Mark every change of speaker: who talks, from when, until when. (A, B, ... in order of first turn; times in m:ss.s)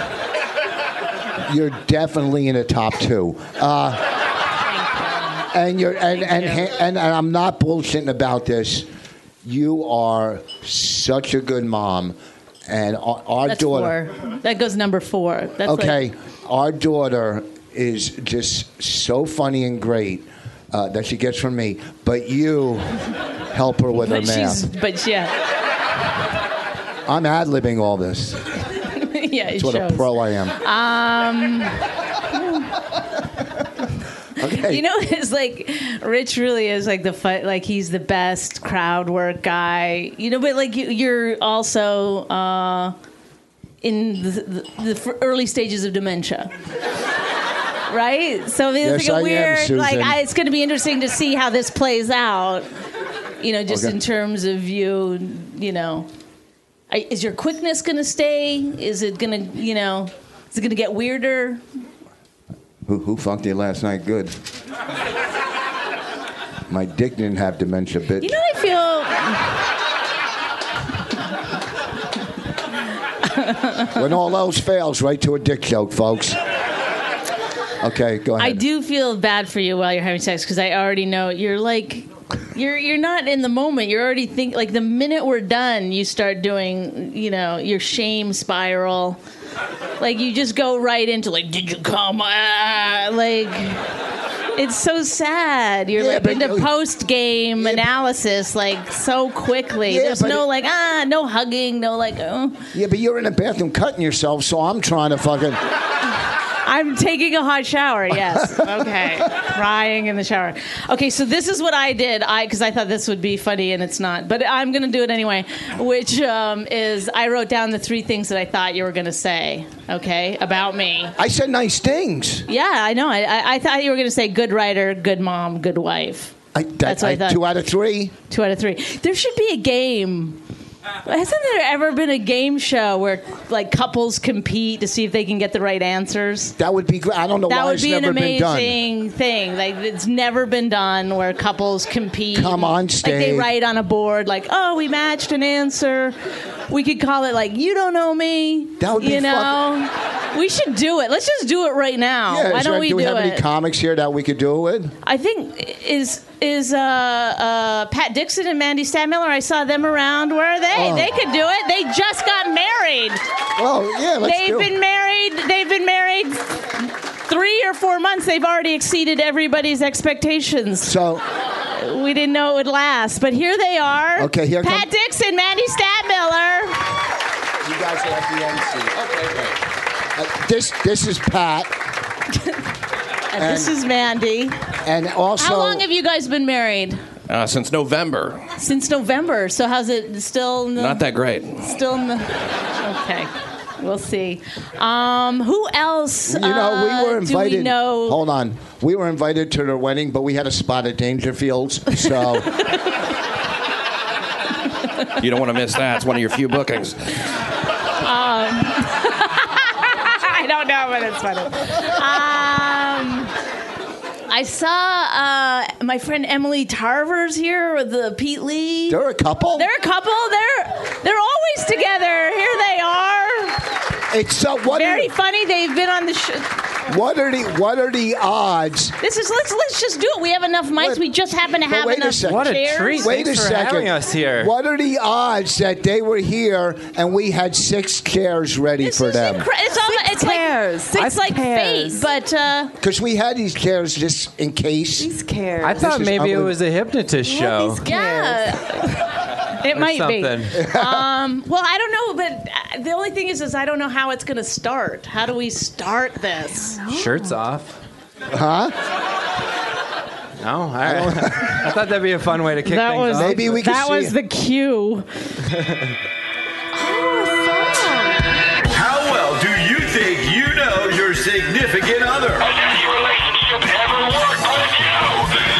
0:01.4-0:04.0 A
0:05.5-0:08.9 A
0:06.2-0:06.6 B
0:09.4-0:13.9 A
0:13.4-0:16.0 B
0:15.6-0:24.6 A
0:23.9-0:25.3 B
0:27.1-0:28.4 A
0:28.8-0:31.8 B
0:29.6-0:30.6 A
0:34.4-0:34.8 A
0:34.5-0:42.9 B
0:43.8-0:46.5 B
0:47.9-0:52.7 B
0:48.8-0:50.2 A
0:53.4-0:56.1 B
0:53.7-0:54.0 A
0:56.9-1:01.6 B
1:02.8-1:04.3 A
1:06.7-1:08.3 A
1:08.2-1:09.5 B
1:13.3-1:13.9 B
1:13.9-1:16.4 A
1:17.8-1:18.6 A
1:18.4-1:29.2 B
1:30.0-1:33.8 B
1:34.6-1:42.7 B
1:35.9-1:36.7 A
1:37.6-1:37.9 A
1:39.8-1:40.4 A
1:42.7-1:45.6 A
1:46.6-2:01.1 B
1:48.4-1:48.8 A
2:01.2-2:02.4 A
2:02.5-2:07.4 B
2:06.5-2:08.1 A
2:08.3-2:10.4 B
2:11.0-2:16.5 B
2:16.6-2:18.8 A
2:17.5-2:26.2 B
2:22.3-2:23.5 A
2:26.7-2:33.4 B
2:28.8-2:29.6 A
2:32.3-2:34.9 A
2:35.0-2:43.2 B
2:40.7-2:41.1 A
2:43.6-2:44.7 A
2:44.2-2:51.0 B
2:50.8-2:51.2 A
2:51.7-2:56.8 B
2:54.2-2:54.9 A
2:57.6-2:59.6 A
3:00.1-3:01.8 A
3:03.3-3:04.6 B
3:03.4-3:03.8 A
3:04.8-3:05.8 A
3:05.4-3:07.0 B
3:07.3-3:08.4 C
3:08.6-3:18.2 B
3:10.8-3:11.8 C
3:16.3-3:22.6 A
3:25.2-3:27.0 C
3:28.0-3:33.3 B
3:34.3-3:39.0 B
3:38.9-3:39.7 A
3:39.6-3:43.6 B
3:44.1-3:45.1 A
3:44.7-3:46.5 B
3:46.9-3:49.0 A
3:49.0-3:53.1 B
3:50.8-3:51.0 A
3:51.6-3:59.5 A
3:52.2-3:54.5 D
3:58.8-4:02.7 B
3:59.8-4:02.0 E
4:02.8-4:05.1 A
4:05.0-4:05.8 E
4:05.6-4:07.9 D
4:05.7-4:06.6 A
4:07.3-4:16.8 B
4:07.8-4:08.4 E
4:09.7-4:10.5 D
4:10.5-4:11.0 A
4:16.9-4:17.8 D
4:18.3-4:18.8 A
4:20.4-4:23.4 D
4:20.8-4:21.7 A
4:22.6-4:25.1 B
4:23.1-4:24.1 A
4:25.5-4:25.9 D
4:26.8-4:28.2 E
4:28.7-4:32.6 F